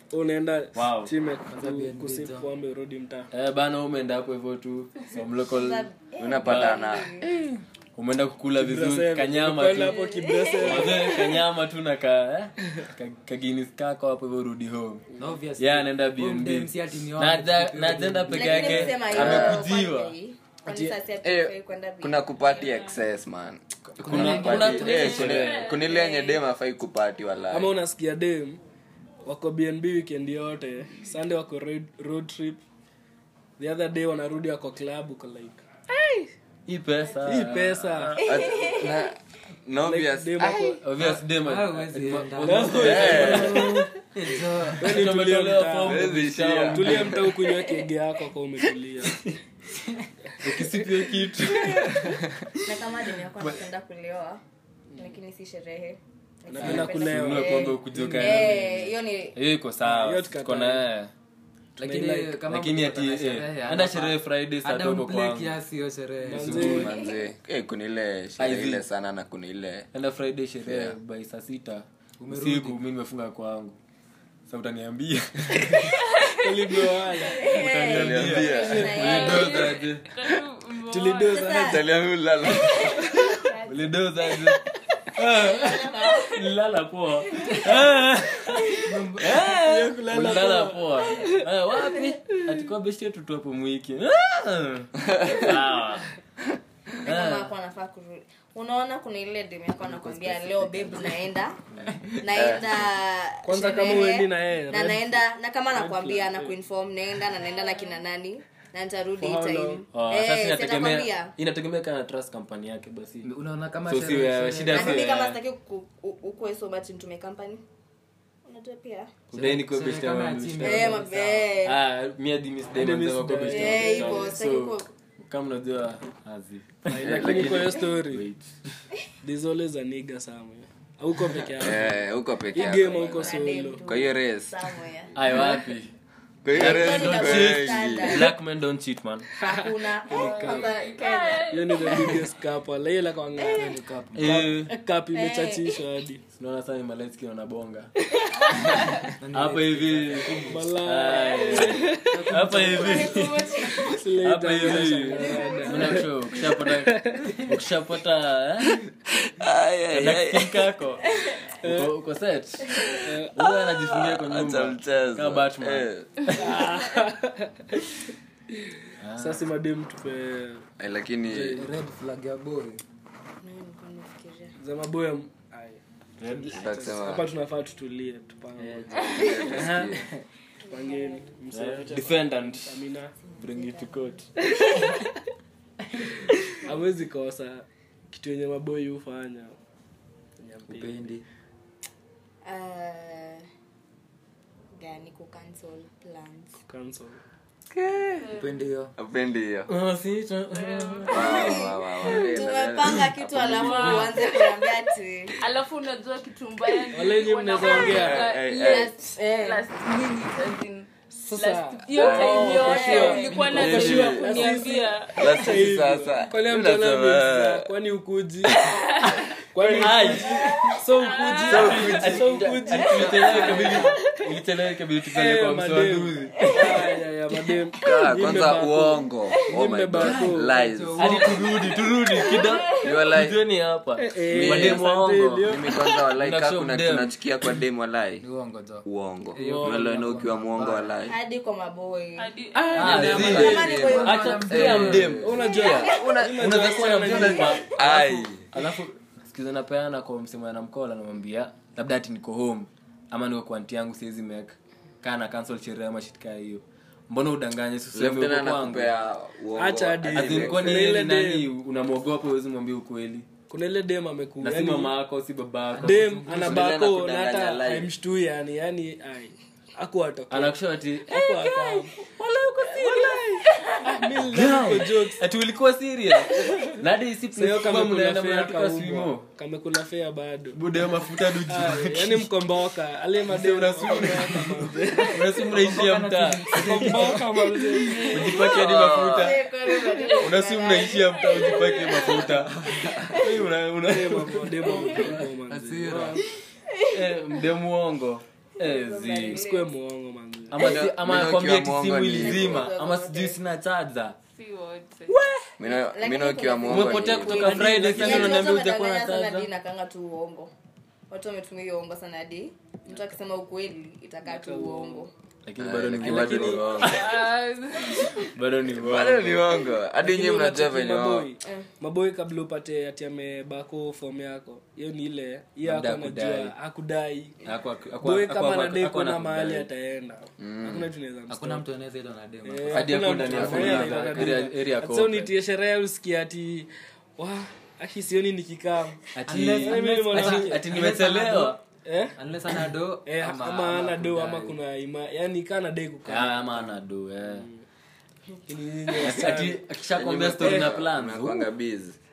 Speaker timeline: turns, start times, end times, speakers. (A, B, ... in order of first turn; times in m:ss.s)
0:00.1-0:03.3 A
0:00.7-0:01.1 B
0:01.5-0:02.5 C
0:03.3-0:05.9 B
0:05.5-0:07.3 D
0:06.2-0:07.1 E
0:06.4-0:06.8 B
0:07.9-0:10.0 B
0:08.5-0:11.2 A
0:09.9-0:11.2 D
0:10.6-0:15.0 B
0:15.2-0:18.9 C
0:15.6-0:20.1 B
0:18.3-0:22.3 D
0:19.0-0:19.6 E
0:20.7-0:20.9 A
0:21.2-0:27.7 E
0:22.4-0:23.0 F
0:24.0-0:25.7 B
0:24.0-0:25.4 C
0:24.6-0:26.4 F
0:27.5-0:28.6 A
0:29.2-0:32.6 A
0:33.6-0:36.3 A
0:36.7-0:38.3 B
0:37.2-0:38.2 A
0:38.2-0:39.0 D
0:38.2-0:41.2 E
0:39.8-0:40.8 A
0:40.8-0:47.2 B
0:41.4-0:44.9 C
0:42.4-0:43.9 A
0:42.8-0:43.7 E
0:44.8-0:49.2 A
0:45.8-0:47.2 E
0:50.4-0:52.0 B
0:52.6-0:54.4 D
0:54.9-0:59.4 D
0:56.5-0:57.8 A
0:56.6-1:01.1 B
0:59.8-1:00.9 A
1:01.8-1:02.4 A
1:01.8-1:06.8 C
1:02.5-1:05.5 B
1:06.2-1:06.9 A
1:06.3-1:06.9 B
1:06.4-1:09.9 E
1:08.4-1:08.8 B
1:09.9-1:13.8 B
1:10.6-1:10.9 E
1:12.2-1:12.8 C
1:14.5-1:16.0 B
1:16.4-1:17.6 A
1:17.2-1:19.8 D
1:17.4-1:20.0 B
1:17.8-1:19.5 E
1:18.5-1:18.8 A
1:19.0-1:21.6 F
1:20.9-1:21.8 A
1:21.2-1:21.8 D
1:21.6-1:23.0 E
1:22.8-1:23.9 D
1:23.6-1:24.6 B
1:25.1-1:36.1 B
1:25.4-1:26.5 D
1:27.4-1:27.7 D
1:28.8-1:29.4 C
1:29.3-1:31.4 A
1:35.0-1:35.5 E
1:37.0-1:41.6 D
1:37.0-1:37.5 B
1:40.0-1:41.1 B
1:40.0-1:41.1 C
1:42.2-1:51.3 D
1:42.3-1:42.7 E
1:43.4-1:46.5 A
1:49.2-1:53.3 B
1:53.2-1:55.0 C
1:53.9-1:55.4 B
1:54.7-1:57.6 D
1:58.4-1:59.1 D
1:59.3-2:01.1 B
1:59.3-2:01.5 C
2:00.6-2:01.8 D
2:01.6-2:08.7 B
2:02.7-2:04.3 A
2:03.4-2:04.9 D
2:06.9-2:08.2 A
2:07.0-2:07.7 E
2:09.2-2:11.9 A
2:11.6-2:14.6 E
2:12.5-2:13.8 A
2:13.1-2:15.2 D
2:15.1-2:15.9 B
2:16.4-2:18.2 E
2:16.5-2:18.3 D
2:16.5-2:19.3 B
2:19.4-2:21.5 D
2:19.4-2:20.7 A
2:20.1-2:22.2 F
2:21.5-2:26.2 A
2:23.5-2:24.5 C
2:24.1-2:24.7 B
2:25.1-2:25.6 D
2:26.3-2:27.9 B
2:29.2-2:30.7 C
2:29.3-2:33.4 B
2:30.5-2:32.3 A
2:32.1-2:33.4 C
2:32.6-2:33.9 D
2:33.0-2:33.9 F
2:33.8-2:37.4 A
2:34.1-2:38.8 B
2:35.1-2:36.1 D
2:39.4-2:40.6 E
2:39.9-2:46.5 B
2:41.1-2:41.5 D
2:41.6-2:41.9 A
2:42.7-2:43.0 D
2:42.9-2:43.3 A
2:43.8-2:46.4 E
2:46.3-2:48.0 A
2:49.0-2:49.4 B
2:49.2-2:50.6 A
2:50.8-2:51.7 E
2:51.3-2:52.8 C
2:51.3-2:51.6 A
2:53.4-2:54.5 D
2:54.6-2:55.8 A
2:56.2-2:56.6 B
2:56.5-2:57.3 E
2:57.0-3:00.0 A
2:58.6-2:59.7 B
2:59.0-3:00.1 E
2:59.2-2:59.5 D
3:00.6-3:01.2 D
3:00.7-3:03.1 A
3:01.5-3:02.8 B
3:03.2-3:04.8 D
3:03.4-3:04.2 B
3:04.5-3:05.0 A
3:06.6-3:09.6 A
3:10.4-3:11.1 A
3:10.7-3:11.2 C
3:12.4-3:13.4 D
3:14.7-3:16.6 D
3:16.6-3:17.2 A
3:17.7-3:18.2 E
3:18.1-3:18.6 F
3:18.3-3:18.9 C
3:19.0-3:19.7 E
3:19.7-3:21.6 B
3:20.5-3:21.4 F
3:21.1-3:24.0 E
3:21.2-3:25.4 D
3:23.7-3:24.4 F
3:23.8-3:24.1 B
3:25.4-3:35.4 F
3:26.9-3:28.3 A
3:27.8-3:28.9 E
3:28.6-3:29.6 D
3:31.2-3:38.6 A
3:32.0-3:34.5 E
3:32.2-3:33.6 D
3:35.2-3:37.6 E
3:39.1-3:40.5 B
3:39.5-3:43.8 A
3:40.9-3:42.0 F
3:41.5-3:42.2 E
3:41.5-3:46.8 B
3:42.9-3:44.0 C
3:45.1-3:50.5 A
3:46.4-3:46.8 D
3:47.8-3:51.2 E
3:50.0-3:51.5 C
3:51.0-3:55.5 B
3:52.2-3:52.8 D
3:52.8-3:53.4 E
3:54.0-3:55.7 A
3:54.3-3:54.8 E
3:55.4-3:58.2 E
3:56.2-3:57.1 B
3:58.2-4:00.9 C
3:58.8-4:01.2 E
3:59.4-3:59.9 B
4:01.0-4:02.3 D
4:02.2-4:03.2 F
4:02.7-4:18.9 B
4:02.7-4:05.2 C
4:02.8-4:08.4 E
4:02.9-4:06.1 D
4:05.2-4:07.6 A
4:17.9-4:21.0 E
4:19.5-4:21.4 A
4:20.1-4:23.3 B
4:23.5-4:24.9 A
4:24.4-4:26.4 B
4:25.7-4:26.6 C
4:25.8-4:30.6 A
4:26.4-4:27.9 E
4:30.3-4:33.2 B
4:31.1-4:31.9 A
4:32.7-4:35.2 A
4:34.2-4:39.3 B
4:37.3-4:40.6 A
4:40.5-4:42.3 B
4:41.5-4:45.3 A
4:43.3-4:47.2 B
4:45.4-4:47.6 C
4:46.5-4:48.3 A
4:47.8-4:53.4 D
4:48.0-4:49.4 B
4:48.4-4:49.4 E
4:50.1-4:52.5 B
4:52.7-4:53.1 E
4:53.1-4:55.2 B
4:53.8-4:56.2 A
4:55.2-4:56.2 C
4:56.7-4:57.0 D
4:56.9-4:59.4 B
4:58.6-4:59.7 D
4:59.3-5:00.6 A
5:00.5-5:04.2 B
5:00.6-5:02.7 E
5:02.2-5:03.4 D
5:04.3-5:05.2 F
5:05.6-5:08.5 E
5:05.6-5:10.5 D
5:06.7-5:09.5 B
5:11.1-5:15.1 D
5:14.2-5:15.1 A
5:15.4-5:17.1 B
5:15.6-5:17.1 E
5:16.0-5:16.9 A
5:16.8-5:18.3 F
5:18.3-5:19.4 B
5:18.7-5:21.3 E
5:20.0-5:27.4 A
5:25.6-5:26.5 B
5:27.4-5:29.7 B
5:28.0-5:31.6 A
5:30.4-5:30.9 E
5:31.3-5:34.4 C
5:32.4-5:39.0 A
5:32.7-5:35.3 B
5:39.1-5:41.6 B
5:39.2-5:41.6 C
5:39.6-5:40.6 A
5:41.8-5:42.2 A
5:42.2-5:44.6 C
5:43.0-5:46.5 A
5:46.0-5:47.5 B
5:47.3-5:47.6 A
5:48.5-5:49.6 A
5:48.9-5:51.5 B
5:49.9-5:52.0 E
5:50.4-5:50.7 A